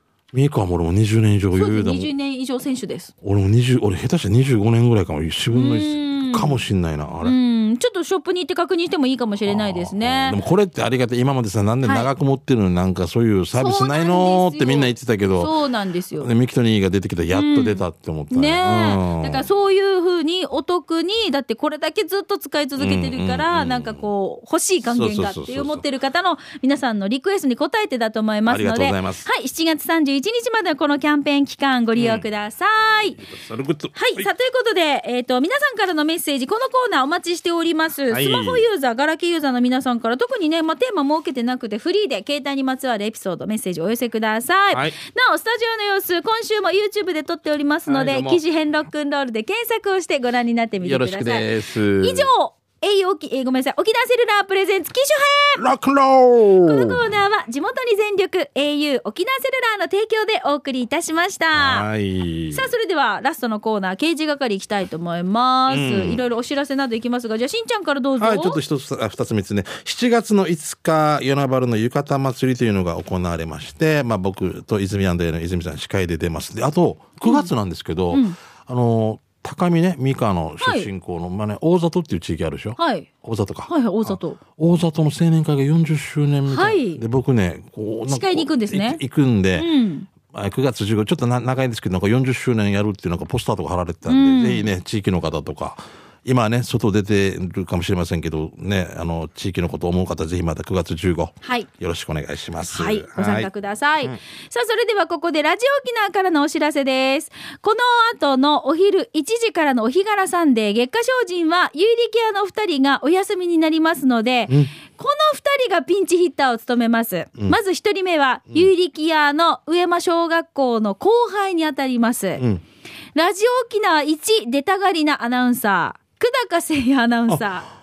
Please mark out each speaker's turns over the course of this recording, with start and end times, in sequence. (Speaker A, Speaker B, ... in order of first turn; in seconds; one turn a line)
Speaker A: 0.3-2.1
Speaker B: 1.5-3.1
Speaker A: 3.2-7.3
Speaker B: 5.5-6.6
Speaker B: 7.2-10.4
Speaker A: 9.4-15.5
Speaker B: 11.8-12.1
Speaker B: 13.5-16.3
Speaker A: 16.2-19.4
Speaker B: 17.3-33.2
Speaker A: 22.8-24.1
Speaker A: 24.8-25.8
Speaker A: 28.5-29.3
Speaker A: 31.9-32.2
Speaker A: 33.2-34.3
Speaker B: 33.9-55.6
Speaker A: 38.1-38.6
Speaker A: 44.7-45.0
Speaker A: 47.9-48.4
Speaker A: 50.8-52.3
Speaker A: 55.6-57.1
Speaker B: 56.6-61.9
Speaker A: 61.5-62.7
Speaker B: 62.5-68.6
Speaker A: 65.7-66.2
Speaker A: 68.2-89.7
Speaker B: 77.2-77.5
Speaker B: 80.6-80.9
Speaker B: 82.8-83.1
Speaker B: 83.7-84.4
Speaker B: 86.5-87.0
Speaker B: 88.1-89.0
Speaker B: 89.5-90.1
Speaker A: 90.2-103.5
Speaker B: 94.0-94.7
Speaker B: 101.4-101.7
Speaker B: 102.7-122.4
Speaker A: 122.4-122.6
Speaker B: 123.1-127.7